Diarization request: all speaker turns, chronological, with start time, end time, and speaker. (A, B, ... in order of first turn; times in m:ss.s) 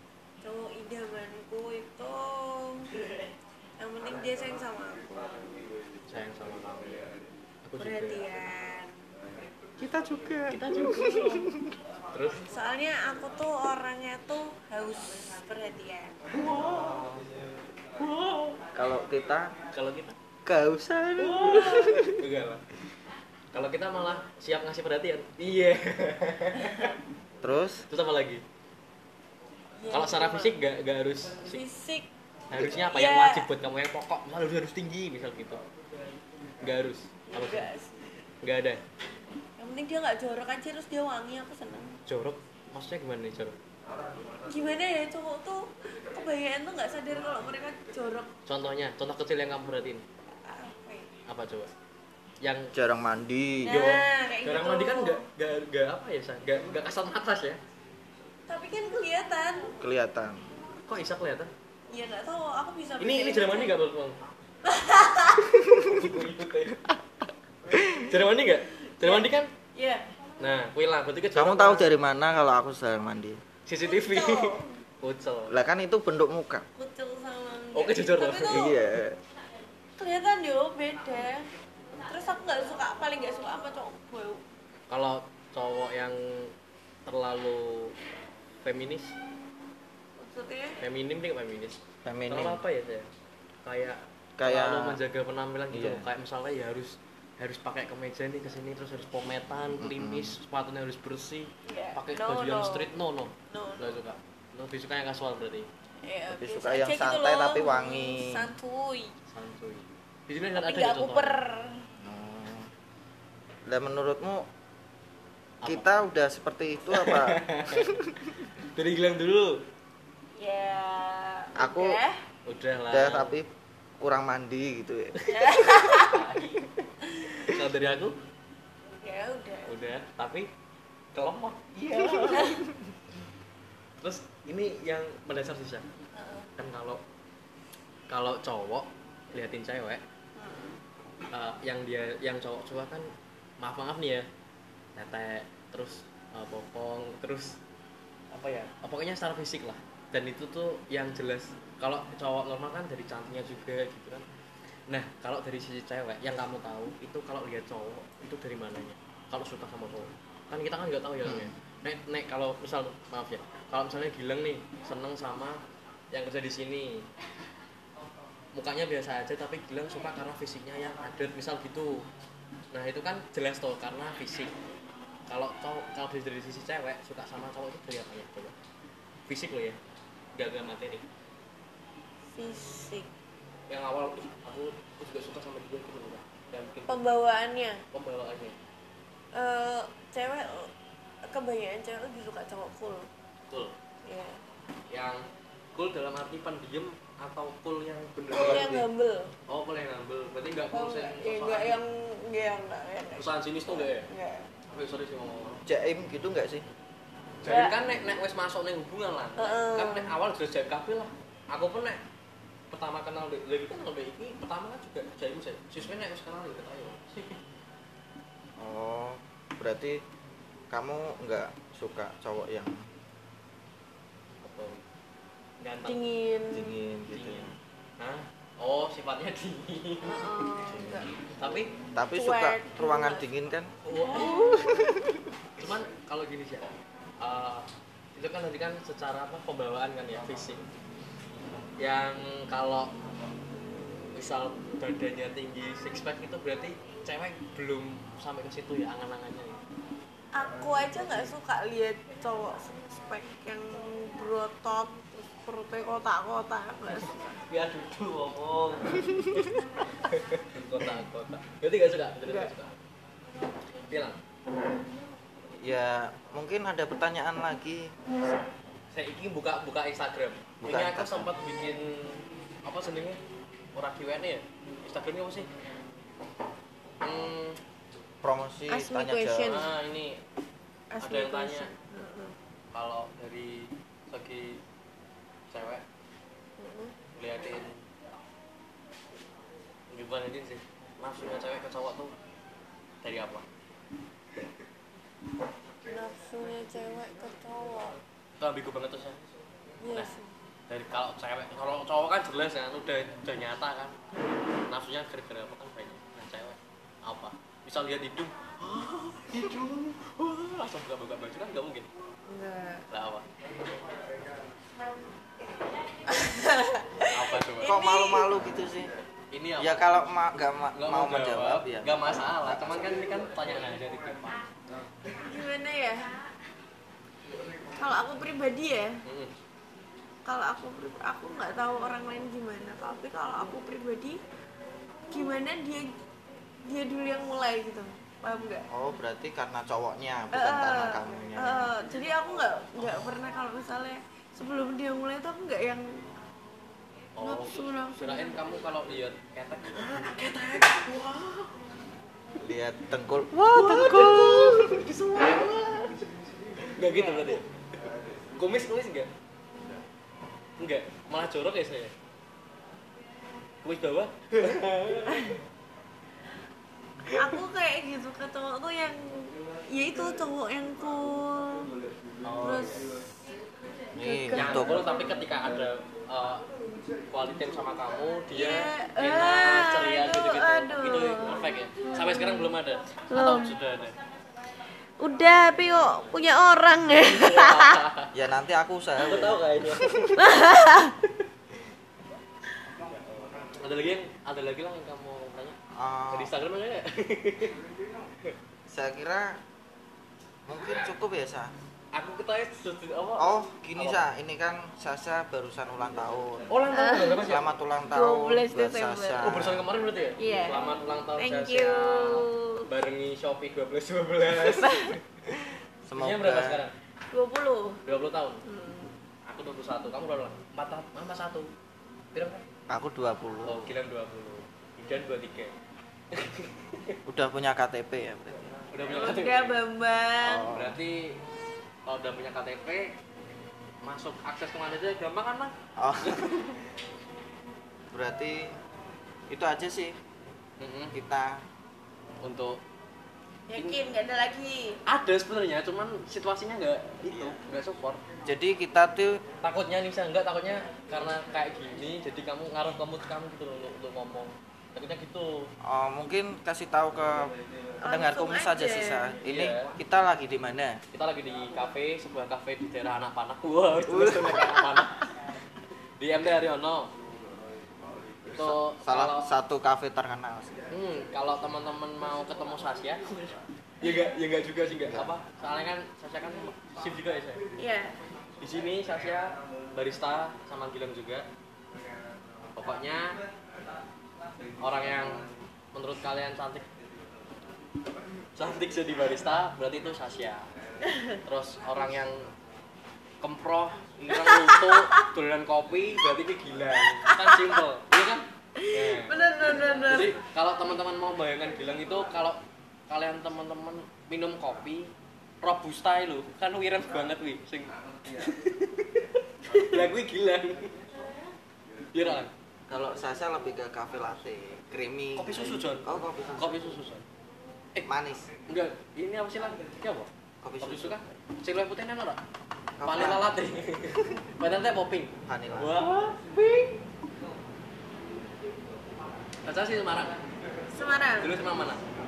0:00.4-0:02.9 A
0:03.8-0:05.3 A
0:06.1-0:07.1 B
0:07.6-0:08.2 B
0:07.8-0:09.0 A
0:09.8-0:11.8 C
0:10.5-0:11.5 B
0:12.1-0:12.4 B
0:12.5-0:16.2 A
0:16.3-0:17.1 B
0:16.4-0:17.2 C
0:18.0-0:18.6 B
0:18.7-0:19.5 C
0:19.7-0:20.2 B
0:20.4-0:22.2 C
0:21.2-0:22.6 B
0:23.5-0:26.9 B
0:27.4-0:27.8 C
0:27.9-0:28.4 B
0:29.8-0:30.6 A
0:29.9-0:31.6 B
0:31.4-0:32.1 A
0:32.5-0:35.6 B
0:32.6-0:33.5 A
0:36.6-0:37.7 B
0:37.3-0:38.0 A
0:38.4-0:38.8 B
0:39.6-0:42.0 A
0:42.1-0:43.6 B
0:44.4-0:48.3 A
0:48.4-0:50.0 B
0:50.3-0:51.1 A
0:51.3-0:51.7 B
0:52.4-0:52.7 B
0:52.7-0:54.0 C
0:53.6-0:55.2 A
0:53.7-0:57.6 B
0:58.5-0:59.8 A
0:59.8-1:00.4 C
1:00.9-1:01.5 B
1:01.9-1:03.8 A
1:03.0-1:04.2 B
1:04.6-1:05.6 A
1:05.6-1:06.2 C
1:05.7-1:06.9 B
1:07.7-1:08.0 C
1:07.8-1:09.5 B
1:09.0-1:10.0 A
1:10.4-1:11.9 B
1:11.3-1:13.4 C
1:13.7-1:15.5 B
1:13.8-1:14.8 A
1:15.5-1:16.6 C
1:16.7-1:18.9 A
1:17.7-1:18.7 B
1:18.5-1:19.2 C
1:20.0-1:21.5 A
1:22.0-1:24.4 A
1:24.9-1:26.5 B
1:27.0-1:28.0 B
1:28.6-1:29.2 B
1:30.2-1:30.8 A
1:30.8-1:33.1 B
1:32.0-1:32.6 C
1:33.6-1:45.7 B
1:34.4-1:35.0 C
1:35.7-1:36.0 C
1:39.7-1:40.4 C
1:41.6-1:42.9 A
1:43.5-1:44.0 A
1:46.0-1:49.2 A
1:46.3-1:48.5 C
1:49.3-1:51.4 B
1:50.5-1:51.9 A
1:52.0-1:52.7 C
1:53.6-1:54.5 C
1:55.6-1:55.9 B
1:55.6-1:58.1 C
1:56.9-1:58.0 B
1:58.6-1:59.6 B
2:00.4-2:02.2 A
2:01.6-2:02.0 C
2:02.4-2:03.4 B
2:02.9-2:03.5 C
2:04.0-2:06.0 C
2:05.3-2:06.2 A
2:05.9-2:08.2 B
2:09.0-2:09.7 A
2:09.6-2:10.5 B
2:11.1-2:12.6 B
2:12.3-2:12.6 A
2:14.0-2:15.9 B
2:16.1-2:16.5 A
2:16.6-2:17.0 B
2:18.1-2:20.0 B
2:20.4-2:20.8 A
2:21.3-2:24.3 B
2:25.0-2:27.6 B
2:28.3-2:34.2 B
2:34.9-2:45.6 B
2:41.2-2:41.5 C
2:46.1-2:47.1 B
2:48.5-2:52.1 B
2:52.7-2:54.5 B
2:55.3-2:58.5 B
2:59.3-2:59.8 B
3:00.3-3:01.0 B
3:02.3-3:03.1 A
3:03.7-3:07.0 B
3:06.9-3:07.8 A
3:07.9-3:08.6 B
3:09.3-3:10.7 A
3:11.2-3:13.1 A
3:13.5-3:13.7 B
3:14.0-3:14.4 A
3:14.9-3:18.8 B
3:18.4-3:18.9 C
3:18.4-3:19.3 A
3:19.5-3:21.8 B
3:20.7-3:24.5 A
3:23.2-3:24.1 B
3:24.7-3:25.6 B
3:25.6-3:26.6 C
3:27.4-3:32.0 B
3:27.4-3:27.8 A
3:29.4-3:30.2 A
3:32.7-3:37.4 B
3:38.6-3:40.0 C
3:40.7-3:42.8 C
3:44.4-3:44.8 B
3:45.6-3:46.0 B
3:45.8-3:46.8 A
3:46.5-3:47.5 C
3:47.1-3:50.2 B
3:50.0-3:51.1 A
3:50.7-3:51.0 C
3:51.4-3:51.7 B
3:51.9-3:53.7 C
3:52.1-3:53.2 A
3:53.8-3:54.5 B
3:54.0-3:55.0 A
3:54.5-3:55.2 C
3:55.6-4:00.6 B
4:01.8-4:02.9 B
4:04.1-4:09.6 B
4:10.3-4:17.4 A
4:17.5-4:19.4 B
4:19.9-4:22.7 B
4:23.9-4:24.2 B
4:25.6-4:27.9 C
4:28.9-4:33.2 B
4:30.6-4:31.3 C
4:33.7-4:35.5 B
4:37.0-4:37.6 B
4:38.2-4:39.6 C
4:38.7-4:39.7 A
4:39.4-4:40.2 B
4:40.9-4:42.3 A
4:41.0-4:41.7 B
4:42.7-4:44.6 B
4:45.5-4:45.8 B
4:46.6-4:46.9 A
4:47.2-4:47.8 B
4:49.9-4:52.1 B
4:53.0-4:53.4 B
4:55.8-4:58.0 A
4:58.4-4:59.2 B
4:59.8-5:00.3 A
5:00.7-5:04.0 B
5:04.7-5:11.9 B
5:12.3-5:12.8 A
5:12.9-5:13.3 B
5:16.1-5:18.3 A
5:17.1-5:17.8 B
5:17.6-5:18.9 C
5:19.3-5:19.9 B
5:19.6-5:22.9 C
5:20.7-5:24.4 B
5:25.1-5:26.1 A
5:27.7-5:29.0 A
5:29.0-5:29.3 B
5:30.2-5:34.2 A
5:35.1-5:35.9 A
5:36.6-5:38.7 A
5:38.7-5:41.7 C
5:40.3-5:46.0 A
5:47.1-5:51.6 B
5:47.2-5:48.4 A
5:52.4-5:54.8 C
5:53.5-5:56.1 B
5:56.6-5:57.5 B
5:56.8-5:57.4 A
5:58.4-5:59.1 B
6:00.6-6:01.9 B
6:03.6-6:05.4 B
6:07.1-6:07.3 B
6:07.1-6:11.7 A
6:12.2-6:12.8 B
6:12.4-6:12.9 A
6:14.0-6:14.9 C
6:14.0-6:15.2 A
6:14.3-6:16.4 B
6:17.1-6:24.0 B
6:18.3-6:22.6 A
6:23.1-6:23.6 A
6:25.0-6:27.8 A
6:27.0-6:28.1 B
6:28.1-6:30.2 C
6:29.0-6:30.2 B
6:30.1-6:31.0 A
6:33.6-6:35.6 B
6:35.7-6:36.3 C
6:36.1-6:37.6 B
6:38.7-6:39.4 C
6:40.4-6:41.5 C
6:41.9-6:44.0 B
6:43.2-6:46.5 C
6:46.5-6:47.5 B
6:46.7-6:47.3 A
6:47.2-6:49.6 C
6:47.9-6:49.3 A
6:49.2-6:56.7 B
6:50.2-6:52.7 A
6:54.4-6:55.0 A
6:55.9-6:56.6 C
6:57.1-6:57.8 A
6:57.8-6:58.4 B
6:58.4-6:58.9 A
6:59.3-7:01.5 B
7:02.1-7:02.4 B
7:02.7-7:03.8 C
7:03.4-7:05.5 B
7:06.1-7:07.0 B
7:07.0-7:08.6 C
7:08.7-7:09.6 B
7:08.9-7:10.5 A
7:10.2-7:10.8 C
7:10.5-7:11.2 B
7:11.8-7:13.0 B
7:13.8-7:16.4 B
7:15.8-7:16.6 C
7:17.9-7:18.6 C
7:19.3-7:20.0 C
7:20.6-7:21.0 B
7:20.9-7:21.4 C
7:22.2-7:22.6 B
7:23.5-7:24.8 A
7:24.8-7:28.0 B
7:27.0-7:27.4 C
7:28.2-7:29.2 C
7:29.4-7:35.5 B
7:35.6-7:40.8 C
7:37.8-7:39.2 A
7:39.2-7:39.7 B
7:40.9-7:45.1 B
7:43.8-7:44.9 C
7:46.0-7:46.9 B
7:48.3-7:50.6 C
7:48.3-7:49.3 B
7:50.7-7:57.4 B
7:57.6-7:58.0 A
7:58.4-8:01.3 B
8:02.5-8:03.2 B
8:04.6-8:06.7 B
8:08.3-8:10.5 B
8:10.9-8:11.2 A
8:11.2-8:12.3 B
8:13.2-8:30.8 B
8:14.1-8:15.1 A
8:17.0-8:17.6 A
8:18.6-8:20.1 A
8:31.9-8:32.3 B
8:32.7-8:36.6 C
8:35.2-8:37.0 B
8:37.8-8:38.3 C
8:38.5-8:40.1 B
8:40.4-8:41.0 C
8:40.6-8:42.2 B
8:42.8-8:43.3 C
8:42.8-8:46.8 B
8:45.3-8:45.7 C
8:49.4-8:50.2 B
8:50.7-8:51.3 A
8:51.2-8:51.8 B